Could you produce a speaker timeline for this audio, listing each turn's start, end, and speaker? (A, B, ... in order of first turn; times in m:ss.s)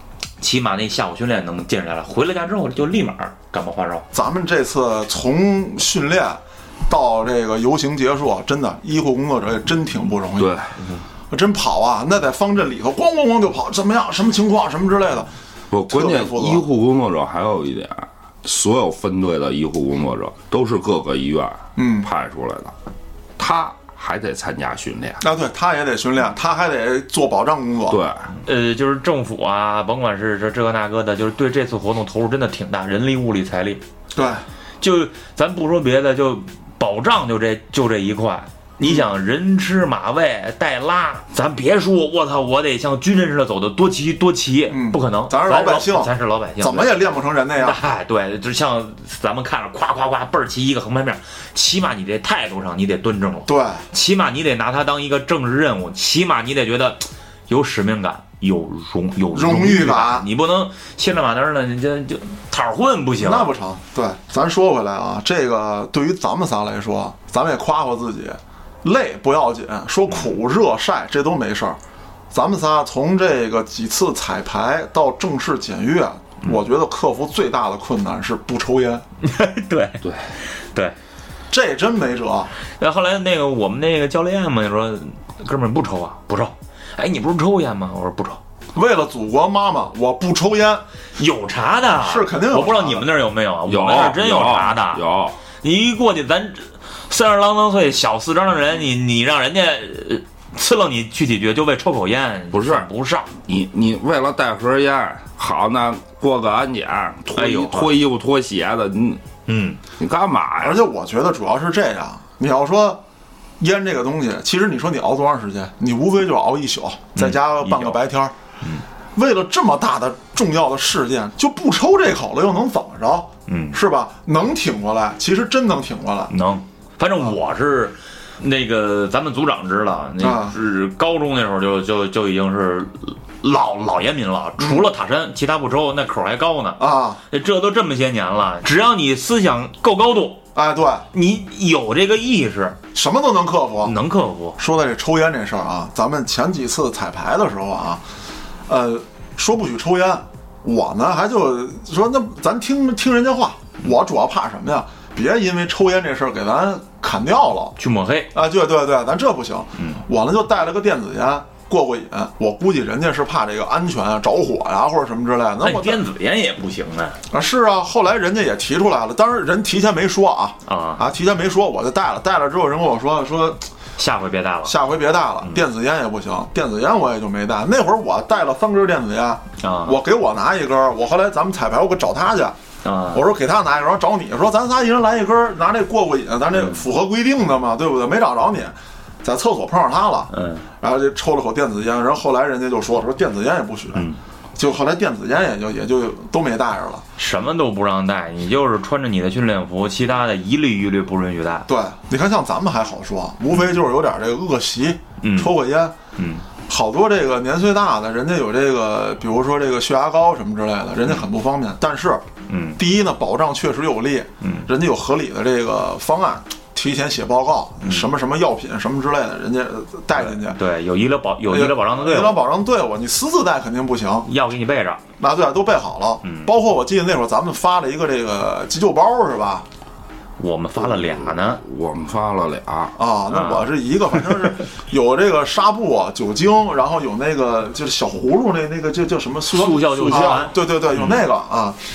0:00.4-0:04.0 A
0:04.1-0:10.5 B
0:10.4-0:10.7 C
0:11.3-0:15.3 B
0:15.7-0:22.7 C
0:15.9-0:16.6 B
0:21.8-0:22.1 B
0:23.4-0:25.2 C
0:25.2-0:28.0 B
0:27.9-0:28.3 C
0:28.4-0:33.8 A
0:34.1-0:34.4 B
0:34.8-0:47.0 A
0:44.7-0:47.8 B
0:47.6-1:03.5 A
0:53.5-0:53.8 B
0:59.3-1:00.2 B
1:03.2-1:11.8 B
1:12.3-1:19.0 B
1:19.2-1:21.0 A
1:21.5-1:22.5 B
1:22.8-1:28.4 A
1:28.7-1:30.8 B
1:31.2-1:35.0 A
1:32.0-1:33.0 B
1:33.7-1:35.4 C
1:35.6-1:43.3 A
1:42.5-1:42.9 C
1:43.4-1:49.2 C
1:47.3-1:47.9 A
1:49.5-1:49.8 A
1:50.0-1:50.8 C
1:50.6-1:53.0 B
1:53.6-1:58.3 B
1:57.1-1:58.0 A
1:59.2-2:06.3 B
2:03.5-2:03.8 A
2:06.3-2:20.4 A
2:10.2-2:10.5 B
2:14.6-2:14.8 B
2:16.8-2:17.2 B
2:20.5-2:21.0 B
2:21.1-2:22.8 A
2:22.9-2:23.9 B
2:23.8-2:24.6 A
2:24.6-2:28.0 B
2:28.7-2:37.7 B
2:37.8-2:38.3 A
2:38.3-2:46.0 B
2:39.8-2:40.0 A
2:45.6-2:47.2 A
2:47.3-2:53.6 B
2:50.6-2:51.0 A
2:54.0-2:54.7 A
2:54.6-3:02.6 B
2:59.6-3:00.0 A
3:02.8-3:03.2 A
3:03.1-3:17.0 B
3:06.5-3:06.8 A
3:10.3-3:10.6 A
3:13.9-3:14.2 A
3:17.2-3:21.7 A
3:21.7-3:25.9 B
3:25.2-3:25.5 A
3:26.2-3:26.4 A
3:26.7-3:32.2 B
3:32.5-3:32.8 A
3:32.8-3:40.6 B
3:34.4-3:34.7 A
3:37.8-3:38.1 A
3:40.1-3:42.4 A
3:41.5-3:44.3 B
3:44.2-3:45.0 A
3:45.2-3:49.6 B
3:46.2-3:46.5 A
3:50.4-3:51.6 A
3:50.8-3:52.9 C
3:53.0-4:01.8 B
3:53.3-3:53.7 A
3:59.5-4:01.3 A